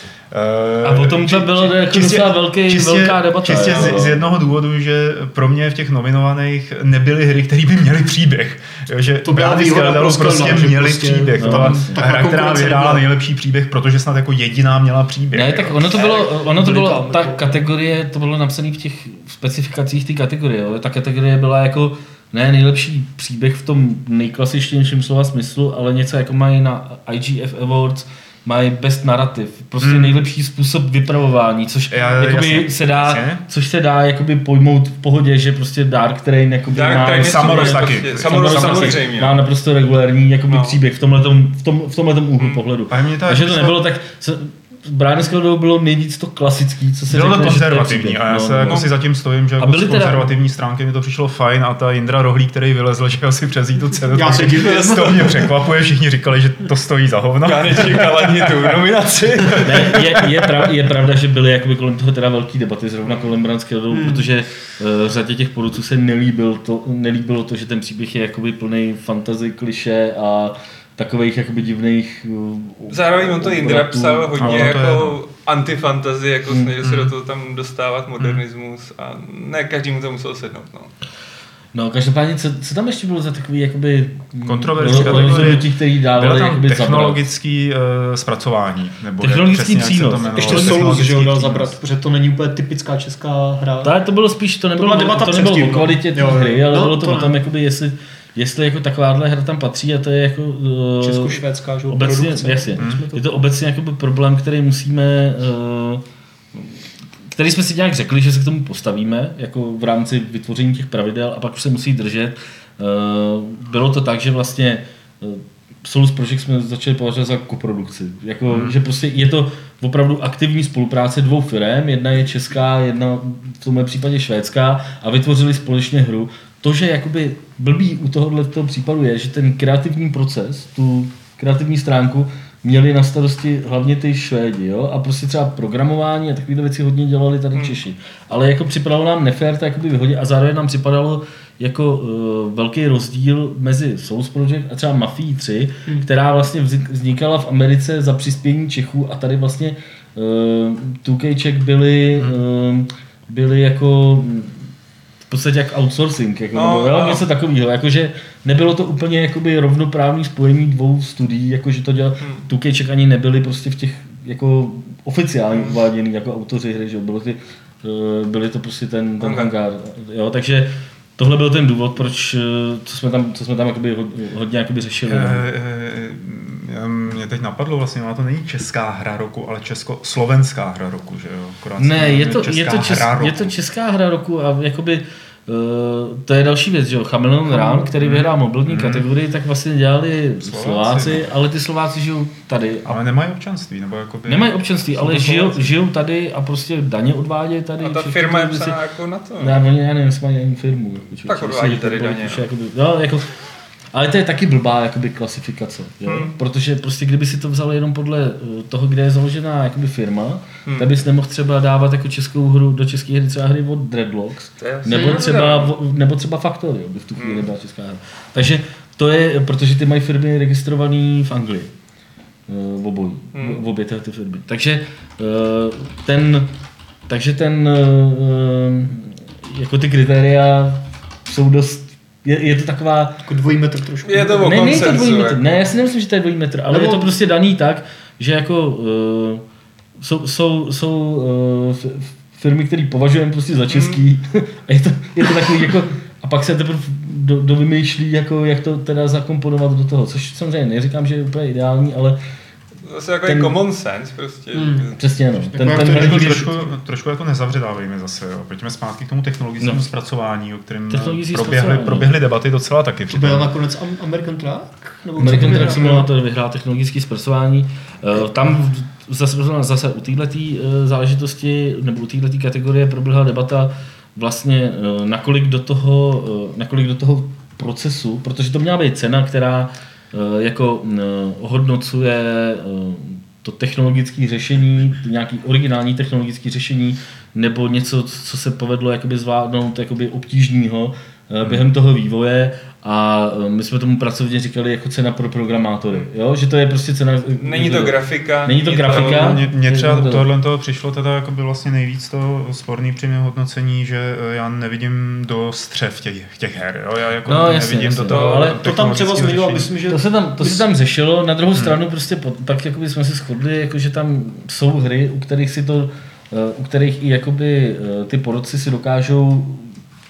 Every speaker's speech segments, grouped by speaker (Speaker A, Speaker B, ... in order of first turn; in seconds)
Speaker A: 0.3-15.9, 29.8-30.2, 31.9-33.4, 37.0-39.0, 42.9-43.8, 47.1-58.8, 59.5-60.4, 74.4-75.2, 76.8-77.1, 84.4-91.7, 102.8-103.0, 118.5-118.8, 175.1-183.5, 188.0-189.1, 190.4-191.3, 192.8-195.8, 255.7-263.5, 298.9-309.7
Speaker B: 0.8-4.2, 11.3-12.0, 15.3-48.9, 49.6-50.3, 59.6-74.8, 76.5-76.7, 81.7-87.2, 89.2-91.0, 93.8-154.7, 155.3-175.4, 181.8-193.0, 194.3-198.8, 199.4-203.3, 203.9-221.7, 222.5-226.5, 227.1-233.2, 234.3-239.4, 240.0-252.2, 253.2-253.6, 254.9-256.5, 260.9-262.1, 265.2-300.2, 307.2-308.6, 309.9-319.8
Speaker C: 9.2-13.0, 15.9-17.5, 54.1-55.5, 63.9-64.2, 90.3-93.9, 94.7-97.4, 101.0-103.4, 187.5-187.9, 233.2-235.1, 236.7-237.1, 254.5-254.9, 255.5-256.7, 263.1-266.1, 308.5-310.6
Speaker D: 36.7-39.4, 40.5-40.8, 42.4-42.6, 57.4-60.1, 72.9-80.9, 156.5-157.2, 162.2-162.5, 165.5-165.8, 169.2-169.5, 197.8-199.6, 201.2-202.4, 206.0-206.3, 210.7-210.9, 214.6-215.7, 217.2-217.5, 223.3-223.6, 234.0-235.7, 243.7-244.0, 252.8-255.0, 297.4-299.4, 308.1-308.5